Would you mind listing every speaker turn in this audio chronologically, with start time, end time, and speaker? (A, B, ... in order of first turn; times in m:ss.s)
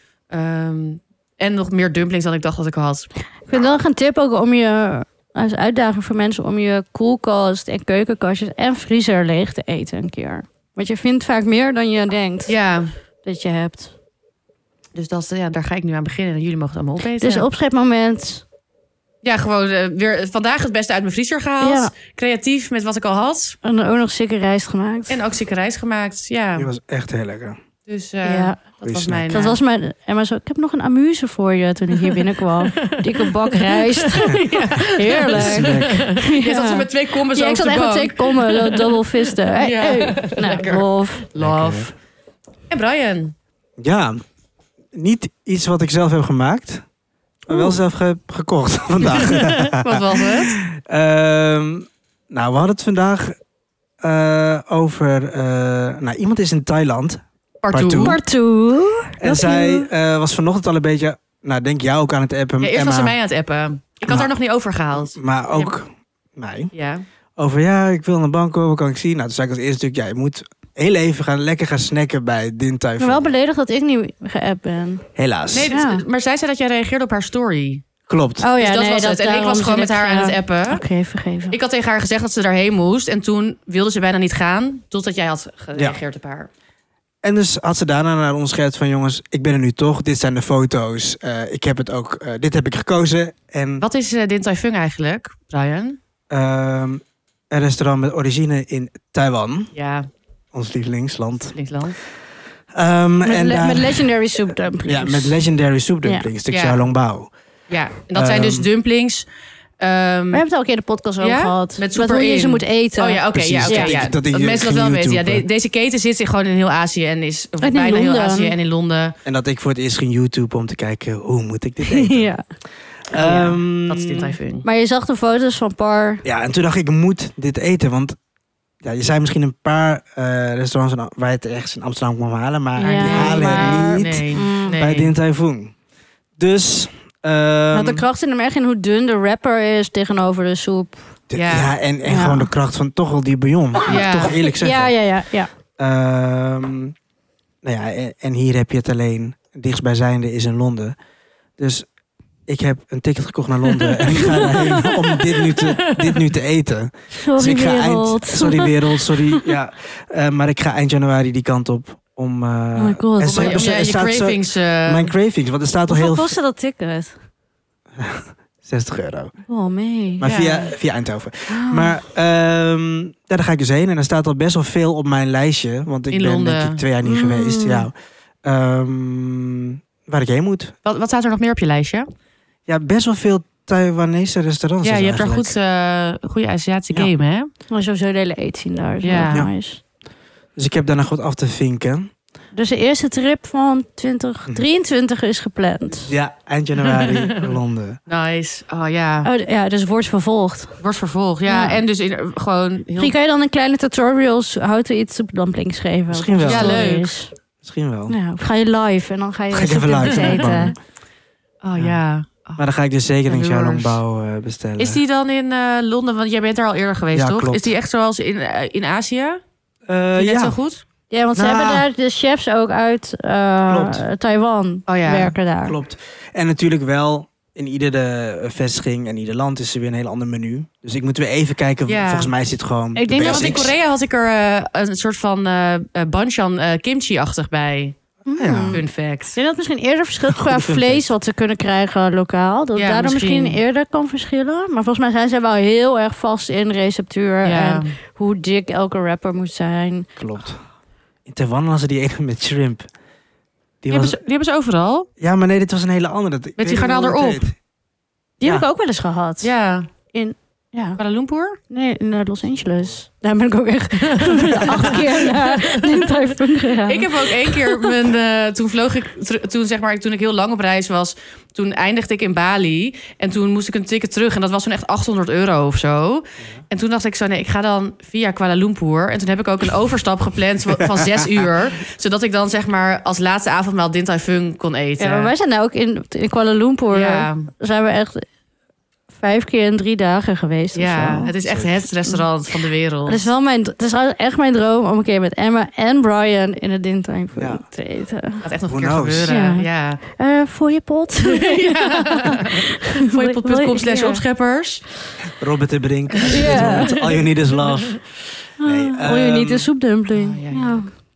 0:00.3-0:03.1 A
0:03.5-0:12.6 B
0:12.5-0:12.9 A
0:13.2-0:13.9 B
0:14.9-0:17.4 A
0:17.2-0:18.4 B
0:19.2-0:23.6 A
0:21.6-0:21.9 B
0:23.6-0:25.2 B
0:25.1-0:26.7 A
0:26.6-0:27.6 C
0:27.9-0:29.6 A
0:28.2-0:28.6 B
0:28.8-0:29.3 C
0:29.3-0:41.2 B
0:32.0-0:41.9 A
0:35.3-0:36.0 C
0:41.4-0:41.9 C
0:42.7-0:43.3 A
0:43.8-0:44.2 C
0:44.9-0:46.8 C
0:47.5-0:53.4 C
0:49.0-0:50.6 A
0:54.0-0:58.2 C
0:57.6-0:58.2 A
0:58.0-0:59.9 B
0:59.2-1:03.2 C
1:02.6-1:05.7 A
1:04.9-1:06.7 C
1:06.7-1:07.0 A
1:07.4-1:13.3 C
1:13.0-1:15.0 B
1:15.2-1:15.7 C
1:15.5-1:17.8 A
1:15.7-1:16.0 B
1:18.1-1:18.5 C
1:18.4-1:21.6 B
1:18.6-1:20.8 A
1:21.5-1:26.5 A
1:27.2-1:33.8 C
1:33.8-1:36.0 A
1:36.3-1:39.7 C
1:39.7-1:40.1 A
1:40.5-1:41.6 C
1:41.5-1:42.0 A
1:42.7-1:44.1 C
1:43.2-1:45.4 B
1:44.8-1:47.3 C
1:46.5-1:46.8 A
1:47.7-1:49.3 A
1:48.1-1:48.7 C
1:49.8-1:50.4 A
1:50.3-1:54.0 B
1:51.2-1:59.2 A
1:53.3-1:55.4 C
1:57.6-1:58.6 B
1:59.2-2:02.3 C
2:01.8-2:02.4 B
2:03.1-2:04.3 C
2:03.2-2:04.6 A
2:04.6-2:06.2 B
2:06.2-2:08.2 C
2:08.8-2:15.7 C
2:12.8-2:14.8 B
2:12.8-2:15.1 A
2:16.4-2:18.0 C
2:17.7-2:21.1 B
2:21.3-2:24.9 C
2:21.3-2:21.7 A
2:22.0-2:22.5 B
2:23.9-2:24.4 A
2:23.9-2:25.5 B
2:25.8-2:26.9 C
2:27.6-2:30.9 C
2:31.6-2:31.9 C
2:32.5-2:46.4 C
2:34.1-2:36.2 A
2:34.2-2:35.0 B
2:37.1-2:39.5 B
2:42.8-2:43.7 B
2:43.2-2:45.1 A
2:45.9-2:47.1 B
2:48.0-2:49.3 C
2:49.5-2:50.3 B
2:50.2-2:57.9 C
2:50.2-2:50.7 A
2:51.5-2:52.0 B
2:56.1-2:56.8 A
2:57.0-2:57.9 B
2:58.4-3:00.7 C
3:00.8-3:02.1 A
3:02.7-3:05.5 C
3:04.8-3:07.5 A
3:07.7-3:09.8 B
3:09.0-3:09.4 A
3:10.6-3:12.1 C
3:12.5-3:16.1 B
3:16.1-3:18.0 C
3:16.9-3:17.4 A
3:18.1-3:19.3 A
3:19.2-3:20.8 B
3:20.8-3:23.1 A
3:21.5-3:21.8 B
3:23.0-3:27.3 B
3:26.1-3:26.8 C
3:26.4-3:27.1 A
3:27.6-3:28.2 C
3:28.1-3:30.8 B
3:29.5-3:30.7 C
3:30.1-3:30.7 A
3:31.6-3:32.6 A
3:32.6-3:35.0 C
3:33.3-3:34.0 A
3:34.8-3:39.4 A
3:37.1-3:37.7 C
3:39.9-3:40.6 C
3:40.1-3:40.8 A
3:41.1-3:45.8 B
3:41.3-3:41.9 C
3:43.7-3:44.0 C
3:44.9-3:45.3 A
3:45.6-3:53.7 C
3:51.9-3:52.3 A
3:52.9-3:53.7 B
3:53.2-3:58.0 A
3:58.2-3:58.8 B
3:58.3-3:58.8 C
3:58.7-3:59.4 A
3:59.3-4:10.1 B
4:00.3-4:01.1 C
4:02.7-4:03.6 A
4:07.4-4:07.9 A
4:10.2-4:10.6 C
4:11.2-4:12.9 C
4:13.8-4:14.2 C
4:13.9-4:15.1 A
4:15.2-4:17.5 C
4:16.6-4:17.4 A
4:18.4-4:19.5 B
4:18.4-4:18.7 C
4:19.4-4:19.9 A
4:20.1-4:21.0 B
4:21.0-4:21.6 A
4:21.7-4:27.9 B
4:24.1-4:26.1 A
4:26.8-4:45.3 A
4:40.8-4:41.5 C
4:45.0-4:48.2 B
4:46.9-4:47.5 A
4:49.1-4:51.3 B
4:50.7-4:53.3 A
4:51.4-4:51.8 C
4:53.1-4:58.4 B
4:57.4-4:57.6 C
4:58.4-5:00.0 A
4:58.7-4:59.3 C
4:59.3-5:04.2 B
5:01.2-5:04.8 A
5:05.4-5:09.7 C
5:06.3-5:06.9 A
5:06.3-5:07.1 B
5:08.6-5:10.9 B
5:10.1-5:10.9 A